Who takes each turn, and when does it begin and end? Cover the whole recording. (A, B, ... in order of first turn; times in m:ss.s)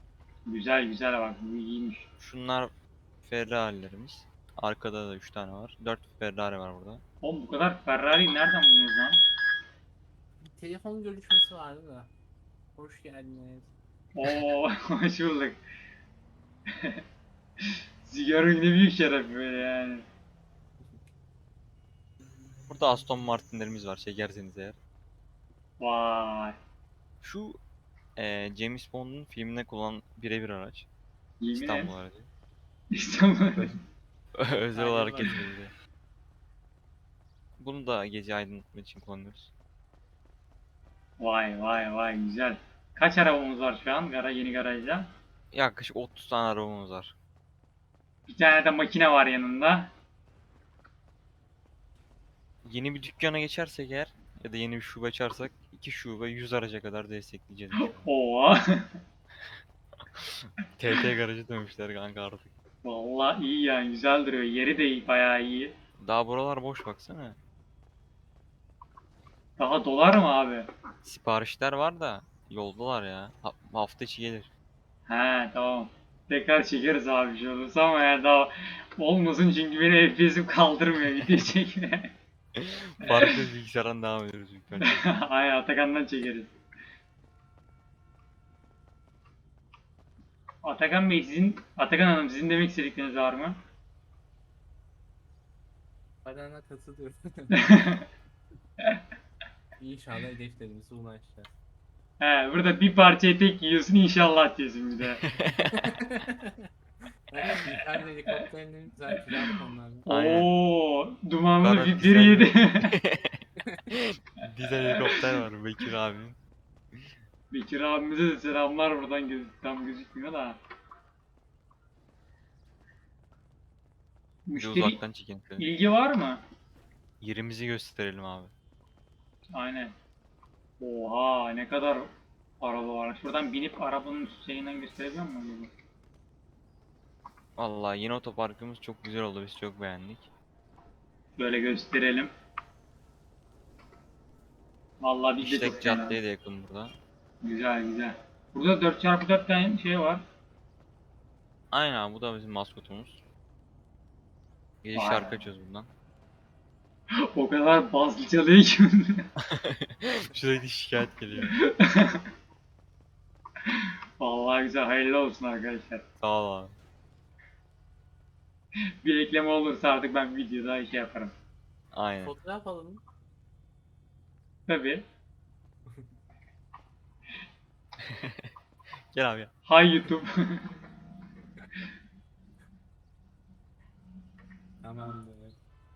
0:00.5-0:02.1 A
0:02.2-0:07.0 B
0:07.2-0:09.2 A
0:10.4-0:12.1 C
0:12.8-0:13.7 C
0:14.1-0:15.6 A
0:18.1-0:20.1 A
0:22.7-0:24.8 B
0:25.8-0:26.6 A
0:27.2-0:27.6 B
0:28.2-0:30.9 B
0:31.4-0:31.9 A
0:31.5-0:32.3 B
0:32.9-0:33.7 A
0:34.4-0:35.7 B
0:34.7-0:35.4 C
0:37.6-0:39.5 B
0:41.2-0:45.1 A
0:45.5-0:47.2 B
0:48.3-0:49.9 A
0:52.6-0:58.0 B
0:57.8-0:58.6 A
1:00.1-1:02.5 B
1:02.8-1:05.7 A
1:06.0-1:07.4 B
1:09.6-1:10.7 A
1:11.0-1:14.5 B
1:15.1-1:22.1 A
1:22.6-1:25.1 B
1:23.0-1:23.3 A
1:24.8-1:26.5 A
1:30.6-1:33.6 A
1:36.2-1:37.8 C
1:37.6-1:38.0 A
1:39.8-1:41.5 C
1:42.2-1:45.2 A
1:45.2-1:45.8 B
1:45.7-1:46.5 C
1:47.3-1:50.1 C
1:50.1-1:53.0 A
1:50.1-1:50.5 B
1:51.6-1:53.4 B
1:54.4-1:56.4 B
1:54.9-1:55.2 A
1:57.5-2:00.6 A
2:04.5-2:05.0 A
2:04.6-2:05.7 B
2:05.6-2:06.4 A
2:07.2-2:08.5 B
2:09.5-2:09.9 A
2:10.8-2:15.7 A
2:17.6-2:20.3 B
2:21.4-2:22.3 A
2:25.0-2:26.2 A
2:25.4-2:26.9 B
2:27.4-2:30.2 A
2:31.7-2:33.2 B
2:34.8-2:35.9 B
2:34.9-2:35.4 A
2:37.3-2:39.2 A
2:39.4-2:41.6 B
2:41.5-2:42.2 A
2:44.2-2:46.0 A
2:46.2-2:46.8 B
2:49.0-2:51.3 A
2:51.9-2:52.4 B
2:52.2-2:53.0 C
2:54.7-2:55.0 A
2:58.0-2:58.5 B
2:59.1-2:59.5 B
2:59.7-3:00.7 A
3:04.8-3:05.6 C